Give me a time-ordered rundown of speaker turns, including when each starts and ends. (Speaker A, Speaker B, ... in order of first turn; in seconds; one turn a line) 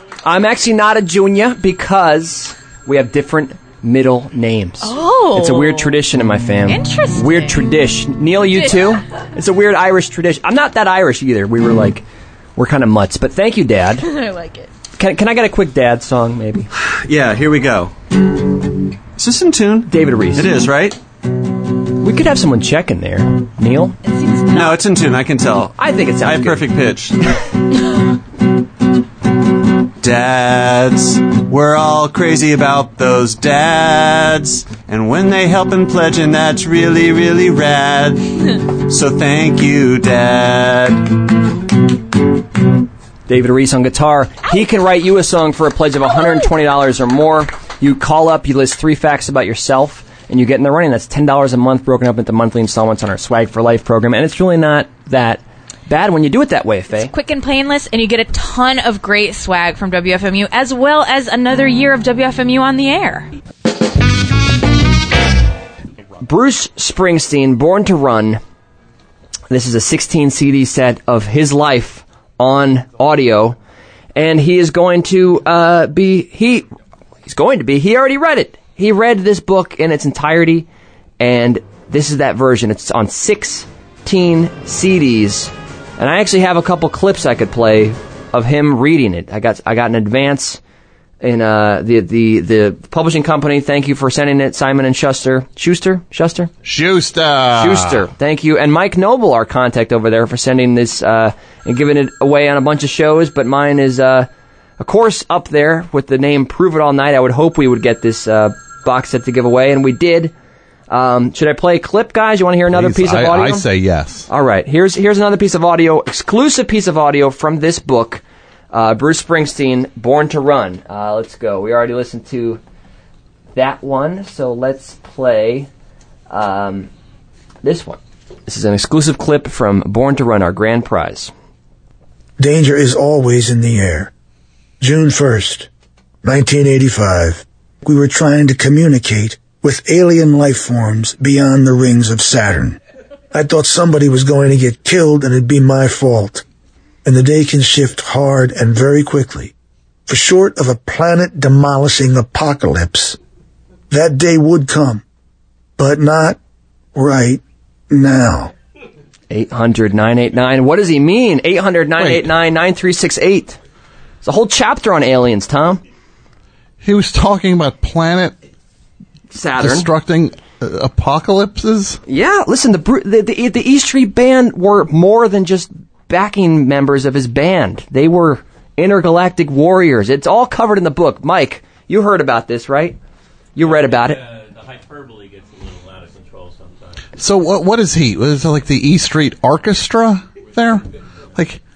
Speaker A: 0.2-12.0
Speaker B: 4.8-6.0
Speaker B: 6.6-7.7
Speaker B: 8.3-9.0
Speaker A: 12.6-14.1
Speaker B: 14.0-14.7
Speaker A: 15.0-16.7
Speaker C: 16.8-17.9
Speaker C: 19.2-21.0
Speaker A: 19.9-20.6
Speaker A: 22.0-24.0
Speaker B: 24.0-24.8
Speaker C: 24.5-27.2
Speaker A: 25.7-26.7
Speaker C: 30.0-41.1
Speaker A: 43.3-57.1
Speaker B: 56.9-63.3
Speaker A: 66.2-68.4
Speaker A: 69.5-73.6
Speaker A: 74.1-76.7
Speaker A: 77.3-80.7
Speaker A: 81.2-90.6
Speaker A: 91.2-96.5
Speaker D: 96.6-98.1
Speaker A: 97.5-110.3
Speaker A: 110.9-113.7
Speaker D: 112.7-114.3
Speaker A: 114.3-122.6
Speaker A: 123.5-125.7
Speaker A: 126.3-126.9
Speaker A: 127.6-131.3
Speaker E: 132.4-134.1
Speaker E: 134.8-135.7
Speaker E: 136.2-142.8
Speaker E: 143.3-146.4
Speaker E: 147.0-149.5
Speaker E: 150.1-153.2
Speaker E: 153.9-155.0
Speaker E: 155.8-156.4
Speaker E: 156.9-158.5
Speaker A: 159.3-163.6
Speaker D: 162.0-162.3
Speaker A: 164.2-165.8
Speaker D: 166.8-168.3
Speaker A: 169.3-169.9
Speaker D: 169.6-172.0
Speaker A: 172.1-183.0
Speaker A: 183.6-184.2
Speaker D: 187.2-191.6